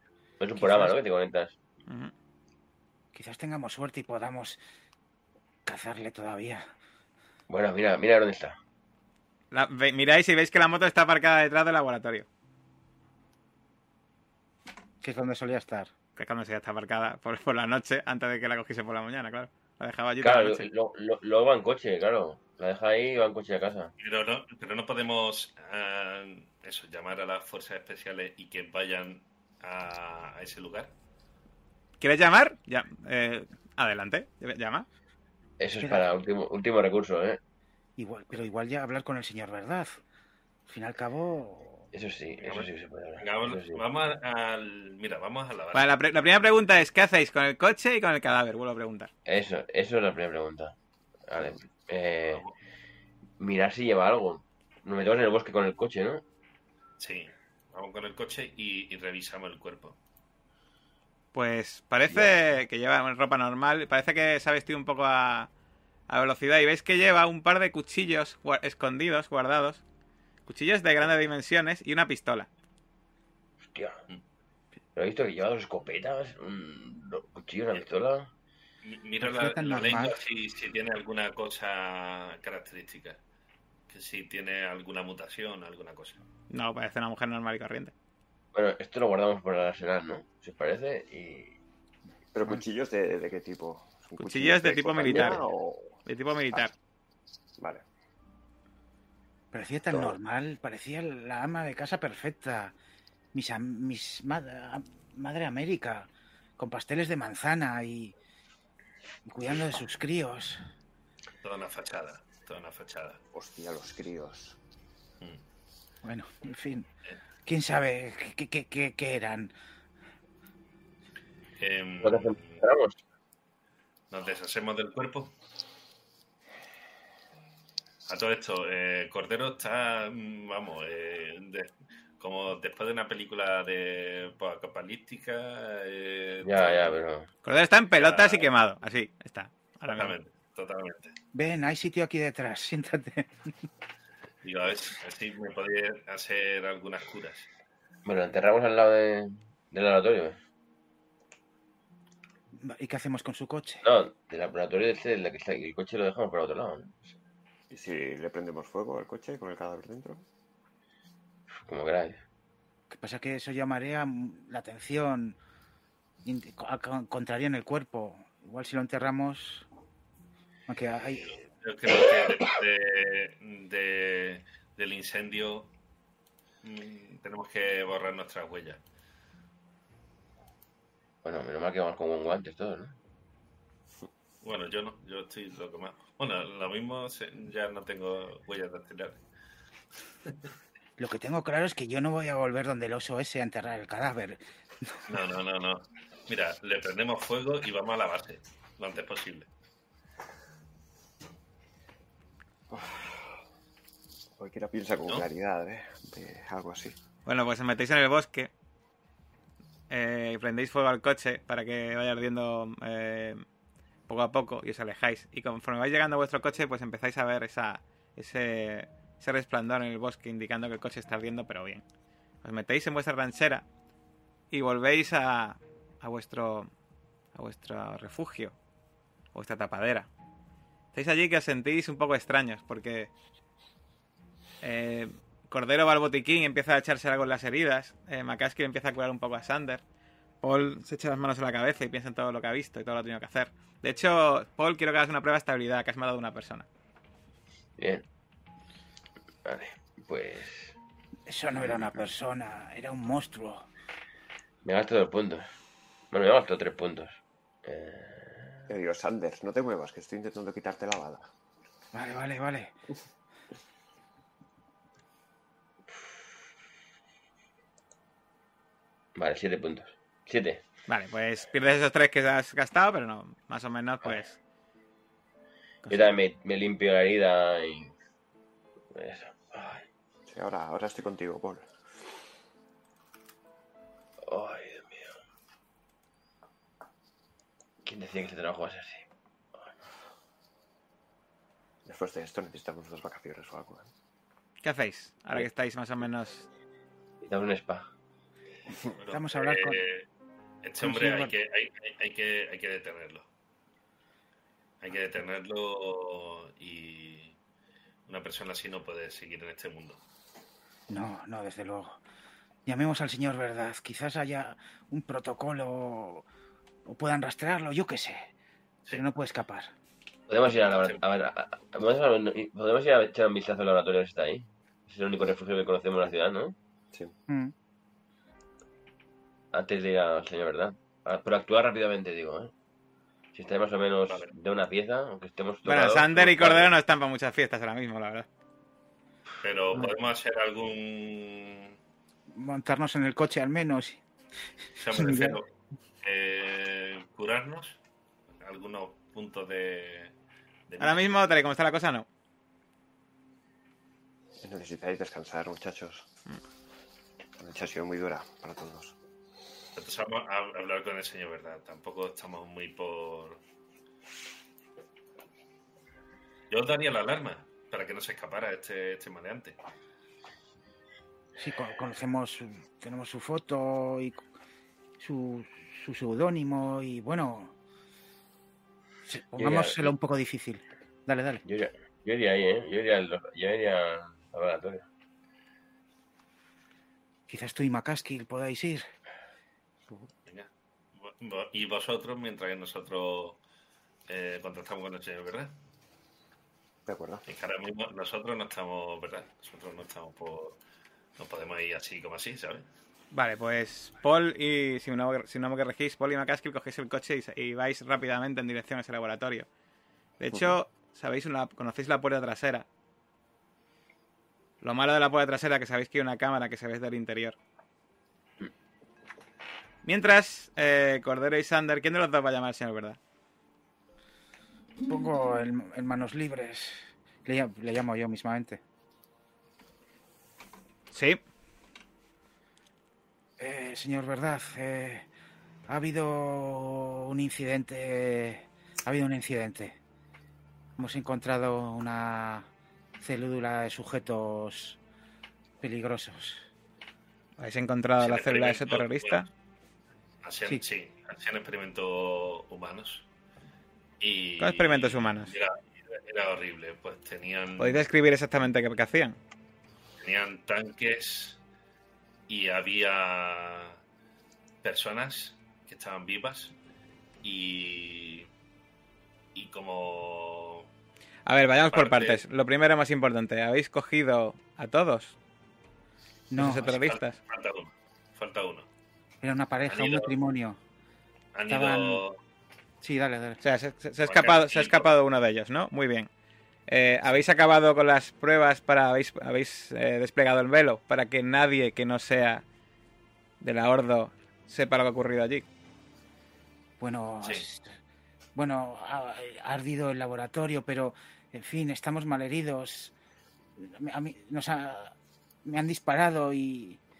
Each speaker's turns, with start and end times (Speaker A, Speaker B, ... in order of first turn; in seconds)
Speaker A: 0.4-1.5, 7.5-8.6, 20.2-23.9, 35.6-37.4, 41.9-43.8, 49.2-50.7, 51.3-52.5, 53.4-56.2, 73.6-74.0, 74.9-78.3, 88.5-91.6, 95.0-95.3, 122.0-123.0, 136.4-137.3, 148.0-150.4, 153.8-157.1, 161.6-162.2, 181.2-183.0, 247.8-248.0, 249.4-250.8, 254.6-255.5, 256.1-258.7, 269.1-270.6, 275.9-277.9, 278.9-279.9, 284.2-285.2, 287.8-289.0, 297.2-297.9, 320.3-326.5, 329.5-332.5, 333.3-336.7, 379.4-379.9, 381.4-384.9
Speaker B: 0.6-0.9, 3.1-4.6, 5.7-6.6, 15.0-15.9, 35.8-36.1, 38.0-40.0, 40.7-41.9, 79.2-80.2, 99.5-102.7, 103.3-108.1, 109.2-110.6, 116.0-116.9, 117.5-119.5, 141.3-143.5, 152.6-153.8, 162.9-165.4, 166.2-169.7, 170.7-171.4, 191.0-195.0, 251.3-253.7, 261.9-262.7, 299.1-299.8, 300.8-301.3, 310.9-312.0, 312.6-316.2, 316.9-318.3, 318.9-319.7, 327.3-327.5, 342.3-344.0, 344.8-345.4, 371.4-374.2, 375.0-377.5, 379.1-381.4, 387.3-388.8, 424.9-428.6, 433.4-435.1, 435.7-439.8, 440.8-442.5, 443.0-444.8, 445.6-446.4, 476.3-476.8, 479.2-480.6, 481.5-482.0, 482.8-483.4, 496.8-497.7, 498.4-502.9, 503.6-504.9, 505.4-506.8
Speaker C: 1.9-2.1, 9.5-12.2, 16.1-20.7, 32.0-34.9, 45.7-49.1, 61.3-65.5, 66.1-69.8, 70.5-72.5, 86.5-87.9, 94.2-95.4, 96.0-96.7, 137.4-140.2, 207.2-208.5, 209.9-213.4, 214.1-221.8, 222.4-223.6, 224.5-226.7, 227.3-228.6, 229.3-230.1, 230.9-233.1, 234.6-239.8, 240.4-246.7, 270.9-274.4, 294.6-296.5, 335.6-338.3, 350.8-352.1, 403.1-409.5, 410.2-412.6, 414.6-417.4, 419.8-423.0, 430.9-431.2, 447.4-449.3, 454.4-455.3, 457.6-459.2, 471.2-475.1, 476.4-477.2, 483.4-486.1, 486.7-492.4, 493.4-495.4
Speaker D: 24.0-30.9, 42.4-45.9, 57.0-60.0, 78.8-83.2, 83.9-86.2, 111.4-113.2, 121.6-122.6, 124.1-125.3, 128.1-137.0, 138.0-138.5, 139.9-141.1, 144.4-147.5, 171.6-175.7, 176.6-178.8, 184.4-189.2, 195.1-199.5, 299.0-300.1, 300.6-303.3, 304.8-307.4, 308.1-310.0, 320.6-321.0, 339.4-341.7, 344.8-345.5, 346.0-347.8, 348.4-350.1, 350.7-351.0, 359.7-363.4, 366.5-369.6, 390.2-393.4, 394.1-395.5, 397.3-400.6, 401.2-402.6, 448.0-449.3, 450.2-453.1, 454.0-457.8, 460.0-461.4, 462.3-463.8, 464.6-466.5, 467.2-468.3, 469.3-470.7, 471.7-472.2, 476.6-478.7, 479.7-480.2, 481.3-482.2, 484.1-484.9
Speaker E: 92.3-96.0, 99.9-100.2, 113.3-114.6, 157.7-160.2, 202.7-203.2, 204.4-207.0, 258.7-261.3, 280.3-281.7, 291.9-293.9, 354.4-356.1, 357.4-358.9, 396.9-397.2